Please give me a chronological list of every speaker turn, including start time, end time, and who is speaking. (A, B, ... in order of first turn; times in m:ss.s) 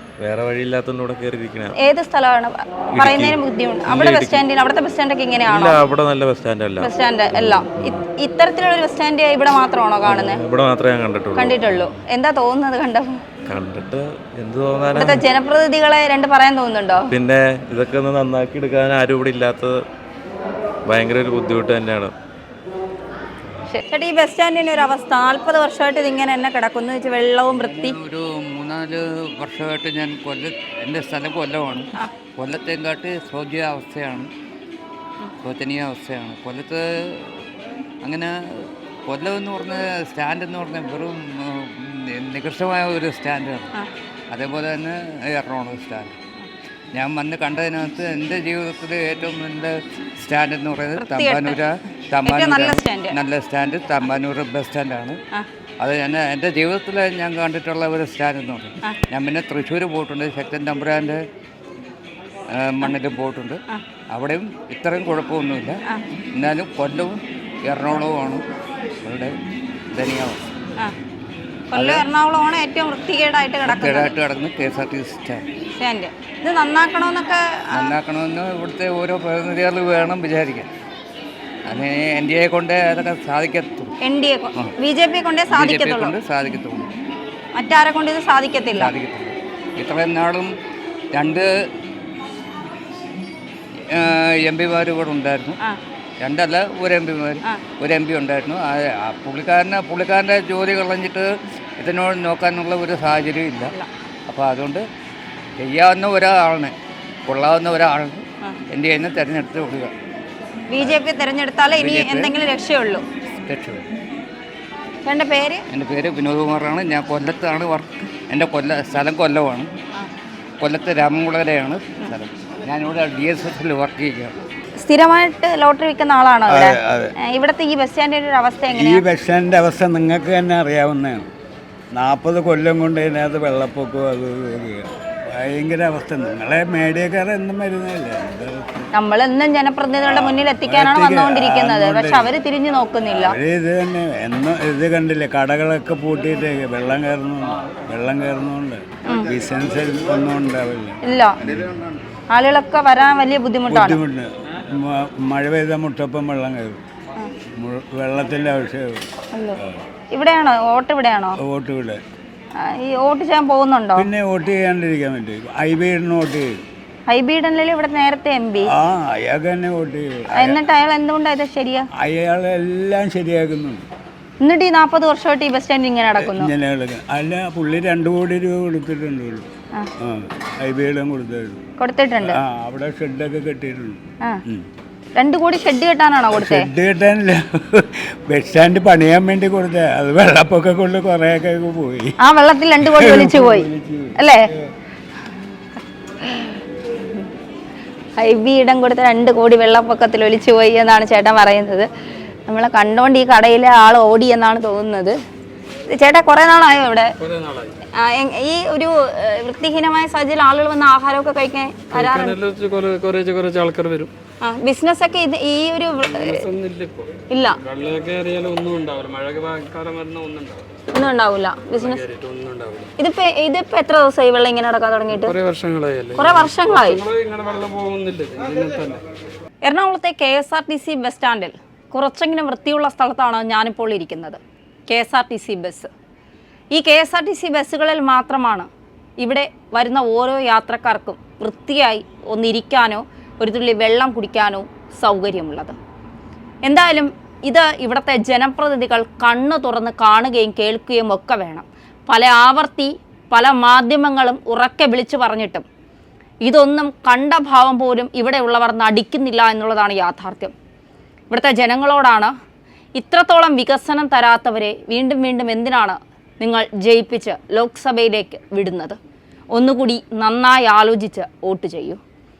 0:00.2-0:01.7 A
0:01.8-0:05.8 B
0:02.9-0:04.4 A
0:05.4-0:07.7 A
0:06.8-0:10.4 B
0:10.0-0:11.6 A
0:11.4-0:13.2 B
0:13.5-0:15.2 A
0:14.9-0:17.1 B
0:17.1-0:19.8 A
0:20.9-0:22.1 A
0:23.6-0:28.0 B
0:27.5-0:34.3 C
0:35.4-0:37.5 C
0:38.0-0:43.7 C
0:44.3-0:46.1 C
0:46.9-0:55.2 C
0:51.0-0:51.6 B
0:52.2-0:53.2 B
0:55.8-1:01.2 C
1:02.5-1:05.8 C
1:06.3-1:08.4 C
1:09.0-1:09.3 C
1:09.9-1:10.4 C
1:11.7-1:14.1 B
1:11.7-1:12.0 C
1:13.6-1:15.4 C
1:15.8-1:17.9 B
1:17.7-1:20.7 C
1:21.7-1:23.9 C
1:24.0-1:26.1 B
1:25.5-1:26.9 C
1:27.5-1:28.9 B
1:28.8-1:30.5 C
1:31.1-1:31.5 C
1:33.9-1:35.6 C
1:36.2-1:41.3 C
1:41.8-1:43.7 C
1:44.3-1:44.8 C
1:45.6-1:46.7 C
1:47.3-1:49.9 C
1:50.7-1:53.0 B
1:51.7-1:52.3 C
1:53.3-1:53.8 C
1:55.0-1:55.6 B
1:55.7-1:59.7 C
2:00.6-2:04.4 C
2:04.8-2:09.0 B
2:06.5-2:07.1 D
2:08.7-2:11.3 D
2:11.9-2:18.9 D
2:18.9-2:23.4 B
2:20.0-2:22.3 D
2:23.1-2:31.8 D
2:31.0-2:31.4 B
2:32.3-2:34.0 B
2:33.7-2:36.8 D
2:37.5-2:39.0 D
2:39.3-2:39.6 B
2:40.1-2:41.4 B
2:41.4-2:42.0 D
2:42.6-2:44.1 B
2:44.0-2:46.6 D
2:47.1-2:48.7 B
2:48.7-2:50.7 D
2:50.3-2:51.9 B
2:52.0-2:53.8 D
2:54.4-2:56.5 B
2:56.2-2:59.5 D
3:00.0-3:01.6 D
3:01.8-3:02.4 B
3:02.2-3:04.6 D
3:05.2-3:06.7 B
3:06.3-3:12.1 D
3:12.2-3:14.5 B
3:12.8-3:14.3 D
3:16.2-3:17.2 B
3:18.2-3:21.9 B
3:22.5-3:25.2 B
3:25.9-3:27.1 B
3:27.2-3:27.8 E
3:27.9-3:32.4 B
3:31.9-3:34.1 E
3:34.4-3:36.4 B
3:36.1-3:40.6 E
3:37.3-3:37.6 B
3:40.9-3:42.0 B
3:41.8-3:42.9 E
3:43.0-3:45.4 B
3:45.1-3:49.0 E
3:46.2-3:47.0 B
3:49.6-3:55.9 B
3:56.7-4:05.8 B
4:06.6-4:15.6 B
4:16.4-4:20.5 B
4:21.3-4:22.3 B
4:23.0-4:29.0 B
4:29.5-4:32.0 B